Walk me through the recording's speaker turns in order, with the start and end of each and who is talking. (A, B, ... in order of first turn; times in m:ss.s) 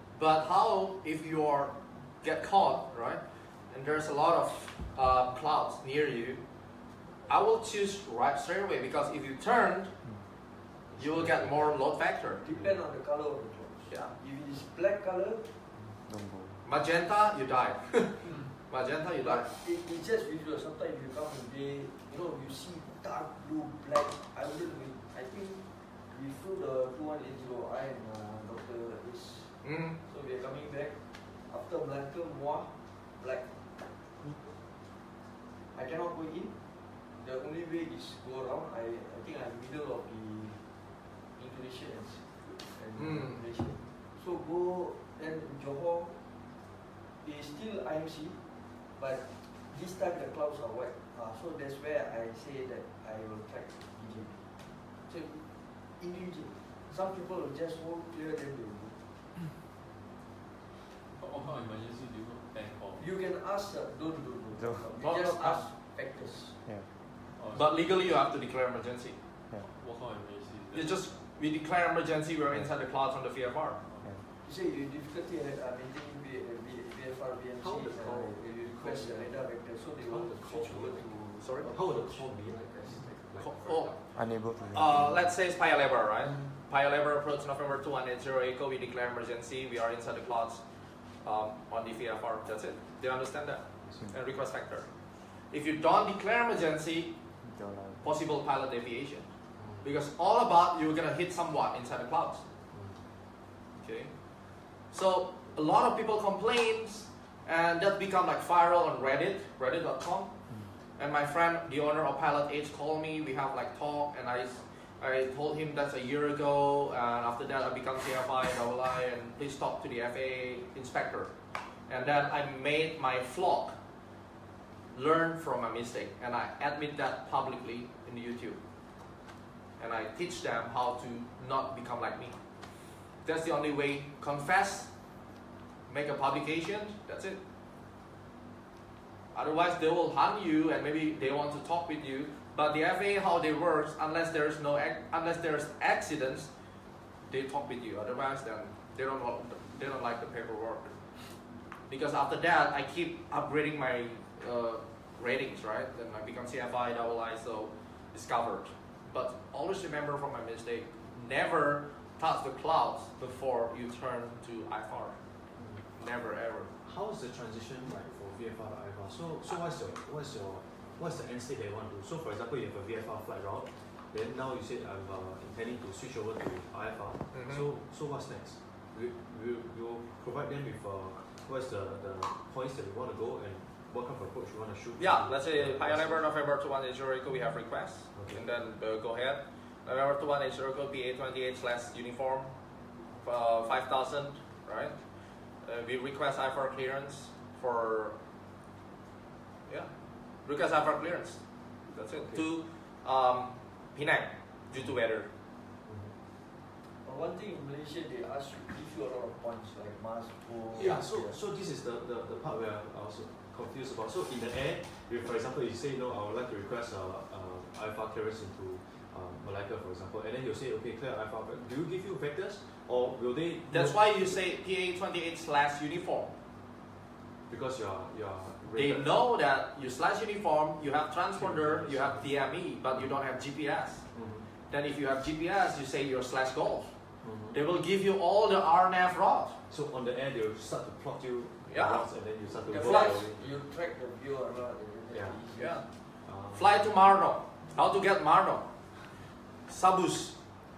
0:00.1-0:06.4 A
0:07.3-0:09.9 A
0:10.9-0:11.8 B
0:11.0-0:12.4 A
0:12.4-0:15.5 C
0:15.8-0:16.6 D
0:16.6-0:19.5 A
0:18.3-0:18.5 E
0:19.2-0:34.6 C
0:29.6-0:30.0 A
0:35.7-0:40.7 C
0:41.4-0:46.2 C
0:43.0-0:43.4 A
0:47.2-0:59.0 C
0:54.0-0:54.3 E
1:01.1-1:03.1 E
1:03.0-1:06.6 C
1:04.6-1:04.9 D
1:05.0-1:05.7 A
1:06.6-1:06.9 D
1:07.3-1:08.1 E
1:07.5-1:09.2 A
1:09.6-1:11.2 E
1:10.7-1:13.8 A
1:13.8-1:14.1 E
1:14.4-1:23.1 C
1:17.6-1:24.1 B
1:21.4-1:21.7 A
1:23.4-1:23.9 A
1:24.1-1:25.4 D
1:24.7-1:30.6 A
1:26.2-1:26.5 B
1:31.2-1:34.9 A
1:35.5-1:37.2 A
1:37.4-1:38.2 D
1:38.0-1:39.3 A
1:39.6-1:39.9 B
1:39.8-1:42.4 A
1:42.7-1:43.0 B
1:43.8-1:44.4 A
1:44.9-1:50.4 A
1:51.0-2:01.3 A
2:01.9-2:03.8 A
2:04.9-2:08.6 A
2:09.8-2:12.4 A
2:13.2-2:14.9 A
2:15.9-2:17.4 A
2:19.3-2:26.5 A
2:27.3-2:30.9 A
2:31.9-2:45.2 A
2:45.6-2:45.9 B
2:46.0-2:46.7 A
2:46.8-3:06.2 B
2:57.3-2:57.7 A
3:05.0-3:12.5 A
3:08.2-3:08.4 B
3:13.2-3:15.0 A
3:15.6-3:18.2 A
3:20.4-3:25.3 A
3:22.2-3:22.5 B
3:25.8-3:26.2 B
3:27.0-3:31.4 C
3:30.8-3:44.4 B
3:43.7-3:46.4 A
3:47.5-3:49.2 B
3:48.7-3:54.1 A
3:51.3-3:52.3 B
3:52.9-3:53.2 B
3:54.1-3:54.5 B
3:54.7-3:56.9 A
3:57.2-3:57.6 B
3:57.5-3:59.6 A
3:59.7-4:03.5 B
4:01.7-4:02.0 A
4:02.6-4:05.8 C
4:02.8-4:03.2 A
4:05.1-4:05.4 B
4:05.6-4:08.7 A
4:06.2-4:06.8 B
4:09.7-4:10.4 A